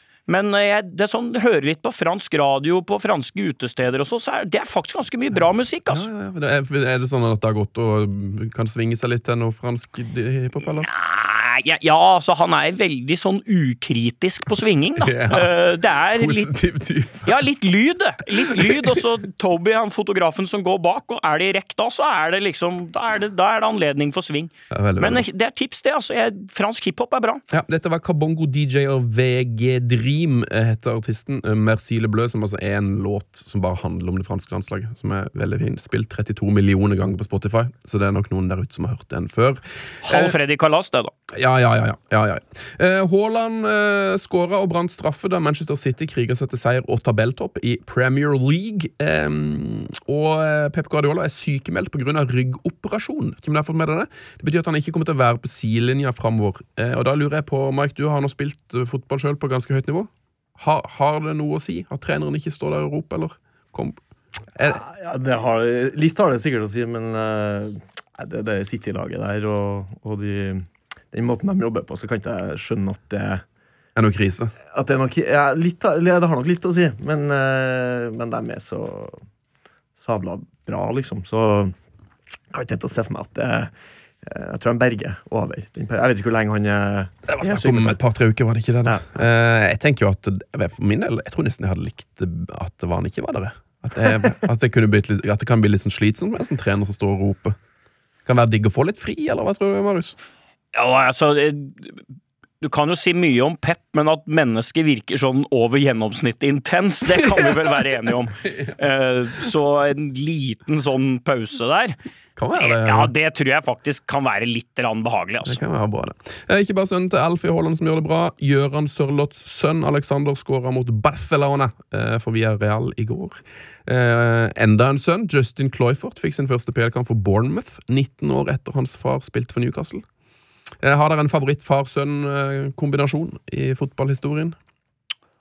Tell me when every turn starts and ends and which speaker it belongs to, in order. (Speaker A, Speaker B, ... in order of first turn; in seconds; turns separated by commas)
Speaker A: 0.3-6.1, Speaker B: 5.9-10.9, Speaker A: 10.8-16.5, Speaker B: 15.0-17.4, Speaker A: 17.2-27.4, Speaker B: 18.3-19.0, Speaker B: 24.7-25.2, Speaker B: 27.5-40.4, Speaker A: 40.0-41.1, Speaker B: 41.3-64.0, Speaker B: 64.5-64.8, Speaker C: 64.6-73.4, Speaker B: 74.0-74.5, Speaker C: 74.7-79.2, Speaker C: 80.0-81.7, Speaker C: 82.5-83.7, Speaker C: 84.2-88.0, Speaker B: 87.3-97.6, Speaker B: 98.2-100.2, Speaker A: 100.7-102.0, Speaker A: 102.6-112.0, Speaker B: 107.1-108.8, Speaker B: 112.3-113.1, Speaker A: 112.5-115.6, Speaker B: 115.4-130.0, Speaker B: 130.8-134.6